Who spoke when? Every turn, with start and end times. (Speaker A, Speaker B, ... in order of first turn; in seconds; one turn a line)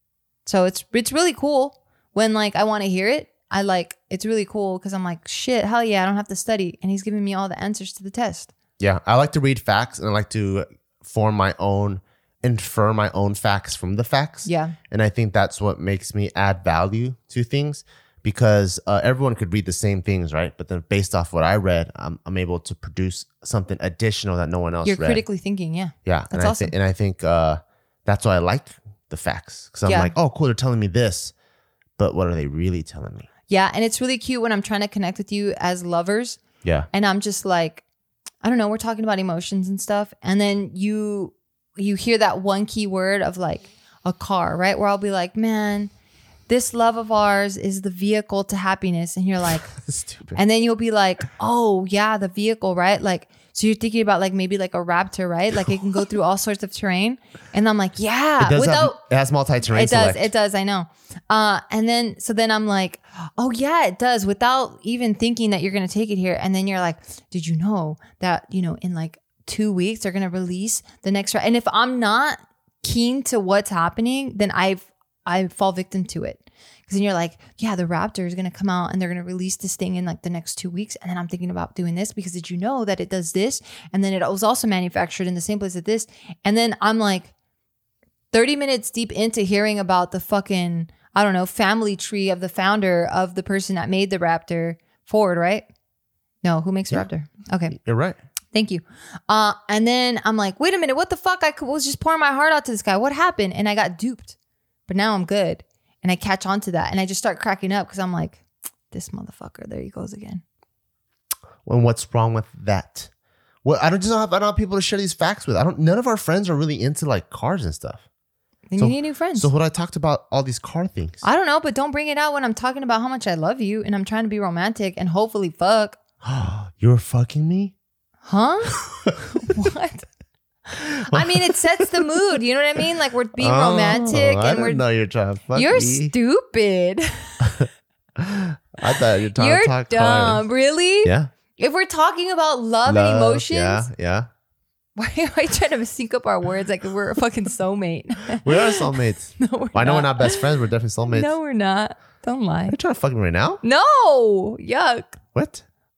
Speaker A: 0.4-8.5
Speaker B: 8.8-25.2
Speaker A: 14.4-14.8
Speaker A: 24.8-26.7
Speaker B: 26.1-31.3
Speaker A: 29.9-30.1
Speaker B: 32.0-33.3
Speaker A: 33.5-36.4
Speaker B: 36.6-36.9
Speaker A: 36.9-37.8
Speaker A: 38.4-45.9
Speaker A: 46.5-49.7
Speaker B: 49.7-50.4
Speaker A: 50.3-59.0
Speaker B: 58.4-60.3
Speaker A: 59.7-87.3
Speaker A: 88.3-95.7
Speaker A: 96.4-97.8
Speaker B: 97.7-98.2
Speaker A: 98.5-104.3
Speaker A: 104.9-110.4
Speaker B: 111.6-113.1
Speaker B: 113.6-118.0
Speaker A: 118.7-119.5
Speaker B: 118.8-121.2
Speaker A: 121.2-126.0
Speaker B: 126.2-127.7
Speaker A: 128.2-128.8
Speaker B: 128.8-129.2
Speaker A: 129.3-130.1
Speaker A: 130.7-134.8
Speaker B: 130.8-131.9
Speaker B: 133.4-136.1
Speaker A: 135.5-137.5
Speaker B: 137.4-140.4
Speaker A: 139.3-143.9
Speaker B: 141.0-141.3
Speaker B: 142.8-144.3
Speaker A: 144.9-150.5
Speaker B: 148.4-151.3
Speaker A: 151.1-152.8
Speaker B: 152.7-153.6
Speaker A: 153.6-155.2
Speaker B: 155.3-155.6